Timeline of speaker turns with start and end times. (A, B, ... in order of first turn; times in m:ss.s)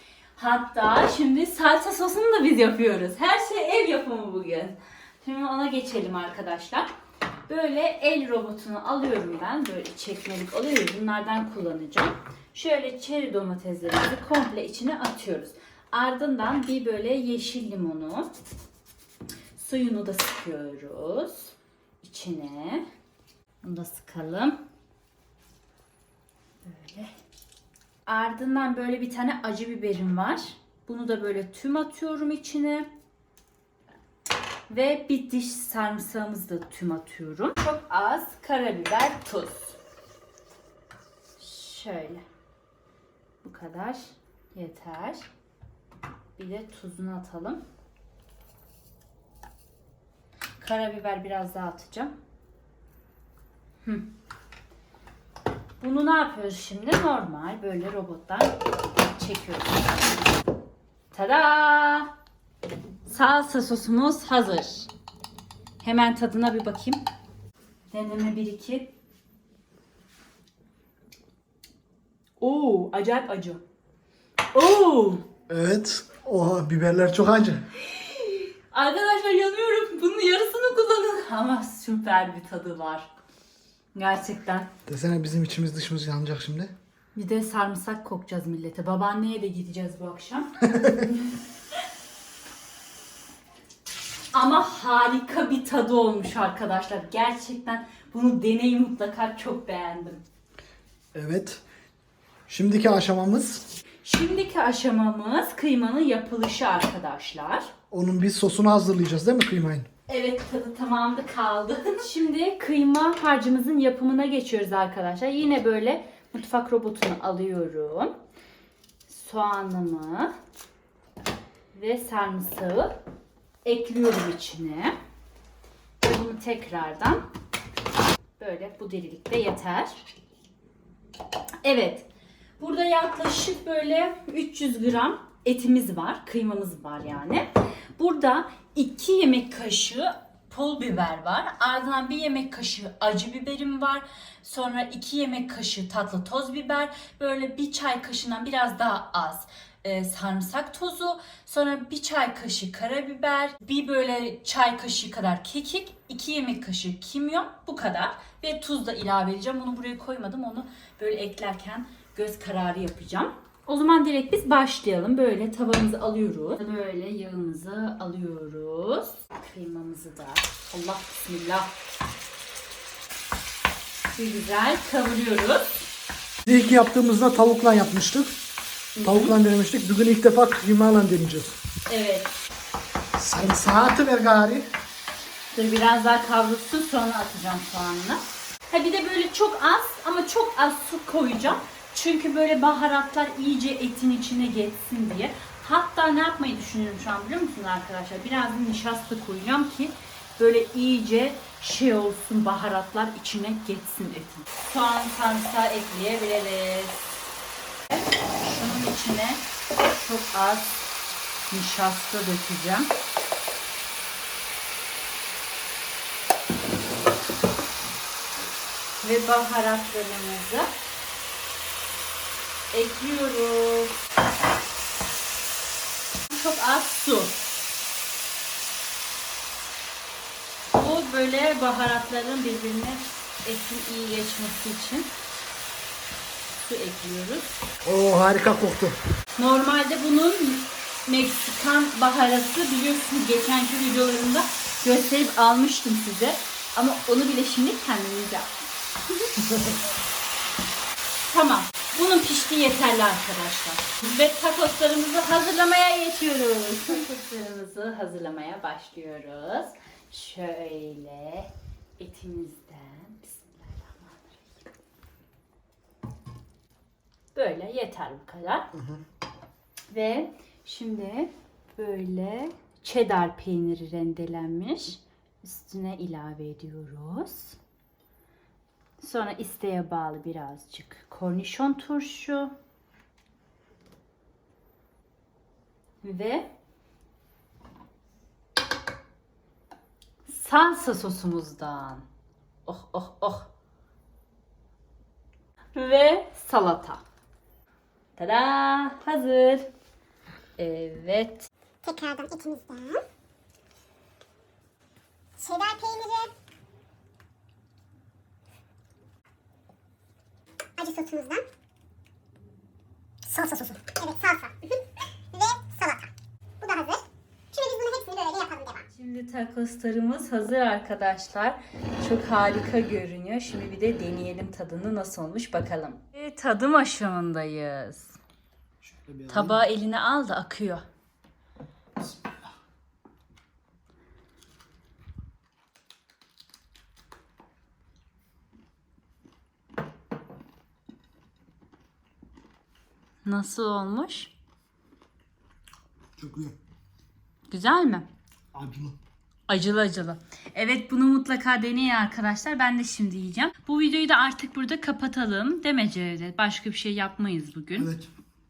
0:00.4-0:06.9 A
0:07.5-0:18.3 A
0:19.6-0:22.8 A
0:23.6-0:24.6 A
0:26.6-0:27.1 A
0:28.0-0:32.9 A
0:34.7-0:39.8 A
0:41.4-0:42.2 A
0:43.4-0:45.3 A
0:46.4-0:47.6 A
0:50.6-0:52.1 A
0:55.8-1:00.3 A
1:01.1-1:02.1 A
1:03.0-1:04.9 A
1:05.8-1:07.0 A
1:07.9-1:08.9 A
1:12.4-1:13.6 A
1:14.5-1:15.2 A
1:15.5-1:17.7 B
1:18.7-1:23.1 A
1:23.9-1:24.7 A
1:24.8-1:26.7 B
1:27.1-1:31.1 A
1:30.7-1:31.0 B
1:34.3-1:40.2 A
1:41.1-1:41.6 B
1:42.5-1:43.6 B
1:44.0-1:47.7 A
1:47.9-1:49.9 B
1:50.1-1:58.1 A
1:59.1-2:00.3 A
2:01.7-2:02.9 A
2:03.6-2:04.9 A
2:06.0-2:07.2 A
2:08.4-2:10.0 A
2:11.6-2:12.1 A
2:12.6-2:51.7 A
2:54.1-2:55.9 A
2:56.4-2:58.4 B
2:59.0-2:59.3 A
2:59.0-3:01.6 B
3:01.9-3:02.3 A
3:03.1-3:04.7 B
3:05.5-3:27.1 A
3:27.9-3:30.9 A
3:31.5-3:32.9 A
3:39.0-3:40.7 A
3:42.7-3:44.0 A
3:46.3-3:47.4 A
3:50.7-3:55.1 A
3:56.6-3:57.5 A
3:57.8-3:59.0 B
3:59.4-4:08.6 A
4:11.2-4:24.5 A
4:27.3-4:28.7 A
4:28.7-4:29.0 B
4:29.9-4:37.6 A
4:39.0-4:42.5 A
4:46.0-4:46.5 A
4:50.2-4:52.0 A
4:52.6-4:53.5 A
4:55.7-4:57.0 A
4:58.2-4:59.7 A
5:00.6-5:01.5 A
5:01.8-5:03.0 C
5:05.4-5:06.3 C
5:10.8-5:11.4 C
5:13.2-5:14.8 C
5:15.3-5:16.1 C
5:16.6-5:17.0 C
5:17.5-5:18.8 C
5:18.9-5:28.2 A
5:28.8-5:29.6 B
5:29.3-5:30.8 A
5:32.0-5:32.5 B
5:43.2-5:44.3 A
5:46.2-5:46.6 B
5:47.5-5:48.1 A
5:48.5-5:49.0 B
5:49.5-5:57.9 A
5:57.8-5:58.1 B